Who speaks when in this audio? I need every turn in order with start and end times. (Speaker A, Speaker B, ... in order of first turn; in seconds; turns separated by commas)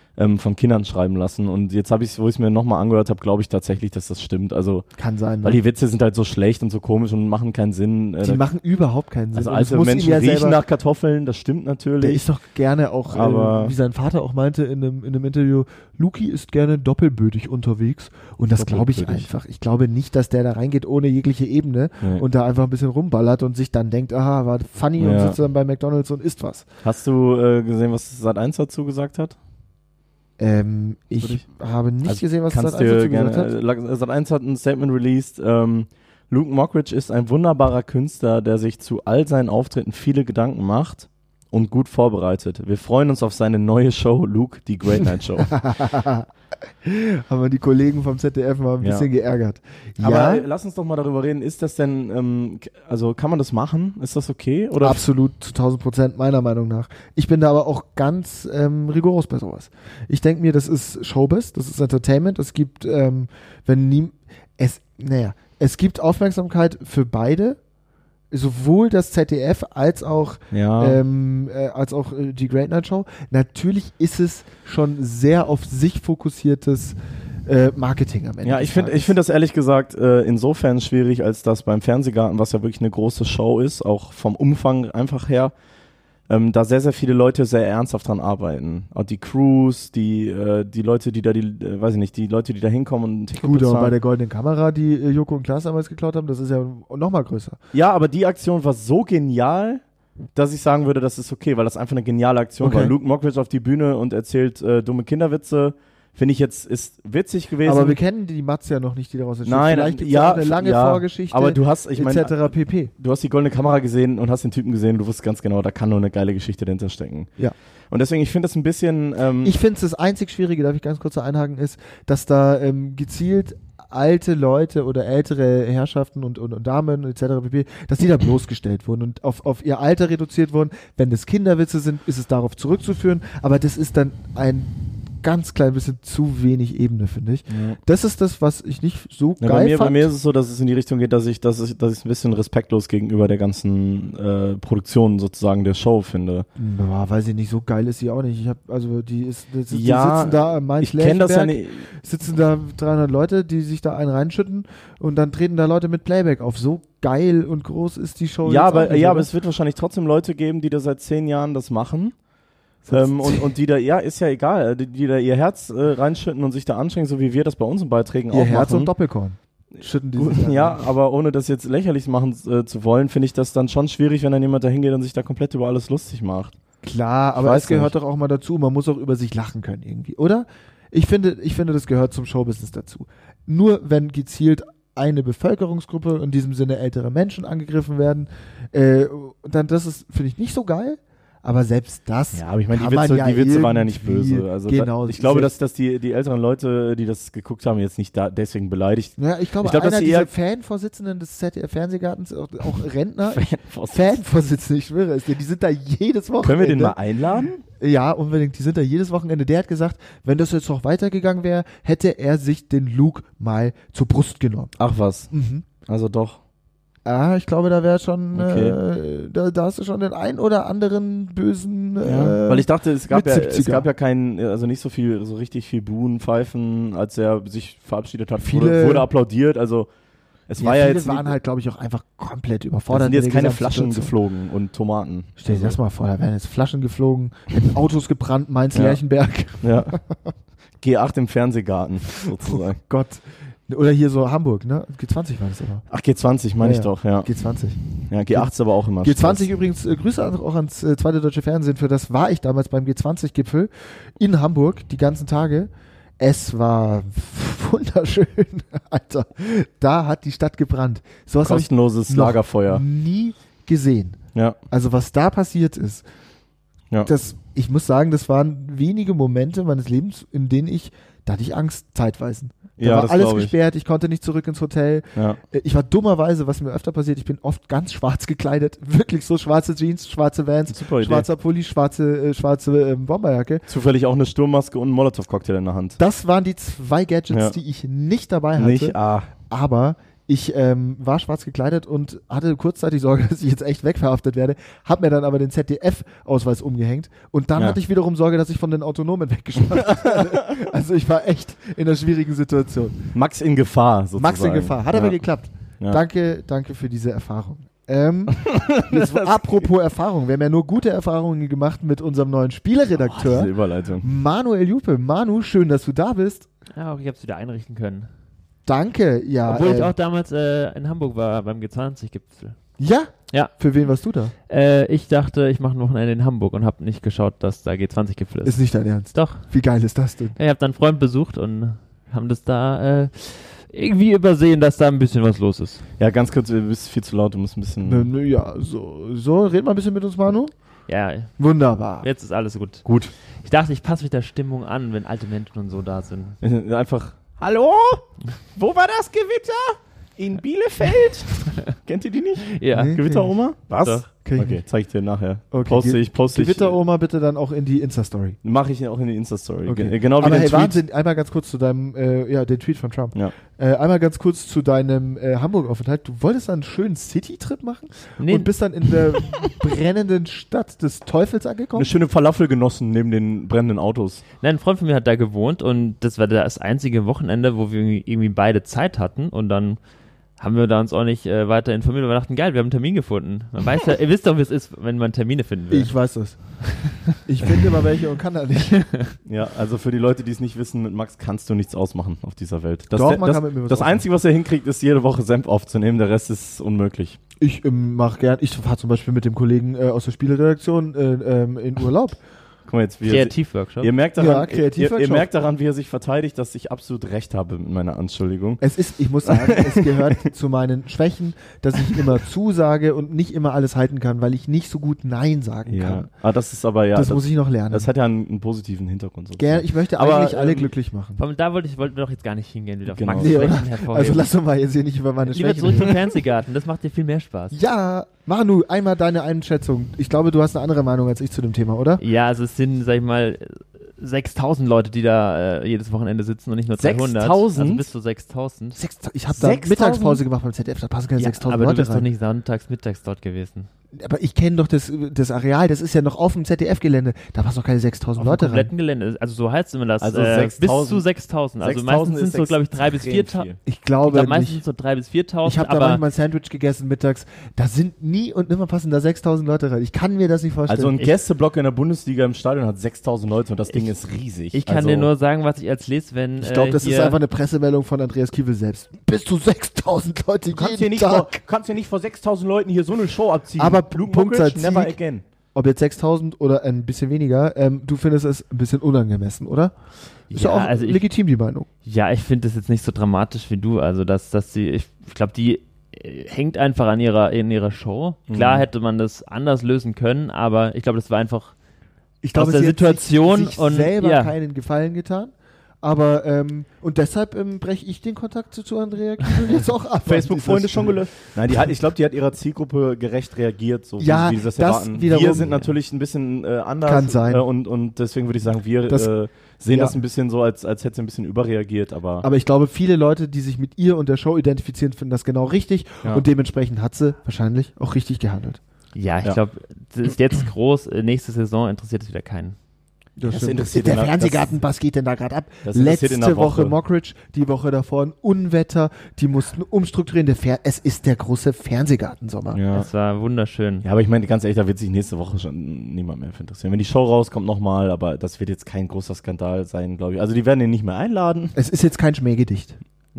Speaker A: 0.1-4.9, Speaker B: 5.0-5.6, Speaker A: 5.4-8.4, Speaker B: 8.2-10.6, Speaker A: 9.3-12.2, Speaker B: 12.0-26.6, Speaker A: 13.1-13.7, Speaker A: 18.5-19.3, Speaker A: 25.0-25.4, Speaker A: 26.8-29.4, Speaker B: 30.4-33.5, Speaker A: 32.0-45.5, Speaker B: 45.5-46.3, Speaker B: 46.8-50.5, Speaker A: 48.8-49.0, Speaker A: 50.0-55.0, Speaker B: 54.8-67.6, Speaker B: 68.3-79.2, Speaker A: 70.5-71.0, Speaker A: 78.4-85.5, Speaker A: 86.3-93.9, Speaker B: 93.3-97.6, Speaker A: 97.7-99.8, Speaker A: 100.3-108.0, Speaker B: 102.6-102.9, Speaker B: 107.6-112.9, Speaker A: 109.4-117.3, Speaker A: 117.9-119.5, Speaker B: 119.4-140.1, Speaker A: 137.5-137.8, Speaker A: 139.4-146.5, Speaker B: 146.6-159.3, Speaker A: 149.7-151.9, Speaker A: 158.4-162.1, Speaker B: 162.8-163.5, Speaker A: 162.9-168.9, Speaker B: 168.3-170.8, Speaker A: 169.7-176.5, Speaker B: 176.8-195.5, Speaker A: 177.4-177.9, Speaker A: 192.3-200.3, Speaker B: 199.2-207.0, Speaker A: 203.3-204.2, Speaker A: 206.4-207.6, Speaker B: 207.7-214.7, Speaker A: 214.8-215.3, Speaker B: 215.3-215.7, Speaker A: 215.8-216.4, Speaker B: 217.0-223.9, Speaker A: 218.3-218.8, Speaker A: 222.0-229.9, Speaker B: 228.4-229.1, Speaker A: 230.5-231.3, Speaker B: 230.6-234.1, Speaker A: 232.9-235.8, Speaker B: 235.4-240.2, Speaker A: 238.7-239.0, Speaker A: 239.6-239.9, Speaker A: 240.8-242.8, Speaker B: 242.4-245.8, Speaker A: 245.9-247.3, Speaker B: 246.6-264.2, Speaker A: 248.1-249.4, Speaker A: 261.4-262.8, Speaker B: 264.7-266.0, Speaker B: 267.0-283.6, Speaker A: 272.8-273.5, Speaker A: 275.1-275.4, Speaker A: 280.7-281.3, Speaker A: 283.7-286.0, Speaker B: 286.0-303.1, Speaker A: 287.3-287.6, Speaker A: 288.6-289.3, Speaker A: 299.7-300.6, Speaker A: 303.1-305.2, Speaker B: 304.2-316.5, Speaker A: 308.3-309.7, Speaker A: 313.0-314.1, Speaker C: 316.7-318.1, Speaker B: 318.6-319.9, Speaker C: 319.4-322.6, Speaker B: 322.8-324.3, Speaker C: 324.5-329.4, Speaker B: 328.4-330.4, Speaker C: 330.4-335.9, Speaker A: 336.0-338.1, Speaker B: 337.8-340.5, Speaker C: 340.9-341.4, Speaker B: 341.4-342.1, Speaker C: 342.0-346.4, Speaker A: 342.8-343.1, Speaker A: 346.4-356.8, Speaker C: 352.4-353.0, Speaker B: 352.7-353.3, Speaker C: 353.8-354.1, Speaker B: 354.2-354.6, Speaker B: 355.5-358.4, Speaker A: 358.4-360.8, Speaker B: 359.6-371.9, Speaker C: 368.2-368.5, Speaker A: 371.7-374.2, Speaker C: 374.4-379.8, Speaker C: 380.4-386.1, Speaker B: 385.7-389.0, Speaker A: 389.2-397.2, Speaker B: 392.9-394.1, Speaker B: 397.4-402.2, Speaker A: 402.6-408.6, Speaker C: 403.1-403.9, Speaker B: 404.2-405.3, Speaker B: 408.6-416.1, Speaker A: 409.2-410.2, Speaker A: 415.7-420.7, Speaker B: 416.9-417.9, Speaker B: 419.4-421.2, Speaker C: 421.2-424.3, Speaker A: 422.9-423.6, Speaker B: 423.2-426.0, Speaker C: 425.3-427.6, Speaker B: 427.5-432.0, Speaker C: 432.0-438.8, Speaker A: 436.8-437.9, Speaker B: 438.8-442.1, Speaker A: 439.3-440.2, Speaker C: 441.2-443.7, Speaker B: 444.0-448.7, Speaker C: 448.2-453.5, Speaker A: 450.0-451.0, Speaker A: 451.6-453.6, Speaker B: 453.6-454.6, Speaker C: 454.1-456.0, Speaker B: 455.4-461.0, Speaker A: 460.7-465.1, Speaker C: 464.5-467.2, Speaker B: 466.4-471.3, Speaker A: 470.5-475.2, Speaker B: 473.6-475.0, Speaker B: 475.5-479.7, Speaker C: 480.3-481.0, Speaker B: 480.3-481.7, Speaker C: 481.8-491.5, Speaker A: 488.3-488.7, Speaker B: 492.2-501.0, Speaker C: 492.3-494.3, Speaker A: 500.0-512.3, Speaker B: 504.0-505.7, Speaker B: 506.8-507.4, Speaker B: 509.7-509.9, Speaker B: 512.2-518.6, Speaker C: 518.9-522.5, Speaker B: 523.2-532.6, Speaker A: 523.2-524.6, Speaker A: 525.6-526.8, Speaker A: 532.5-532.9, Speaker C: 532.7-533.8, Speaker A: 533.8-541.5, Speaker B: 541.5-542.8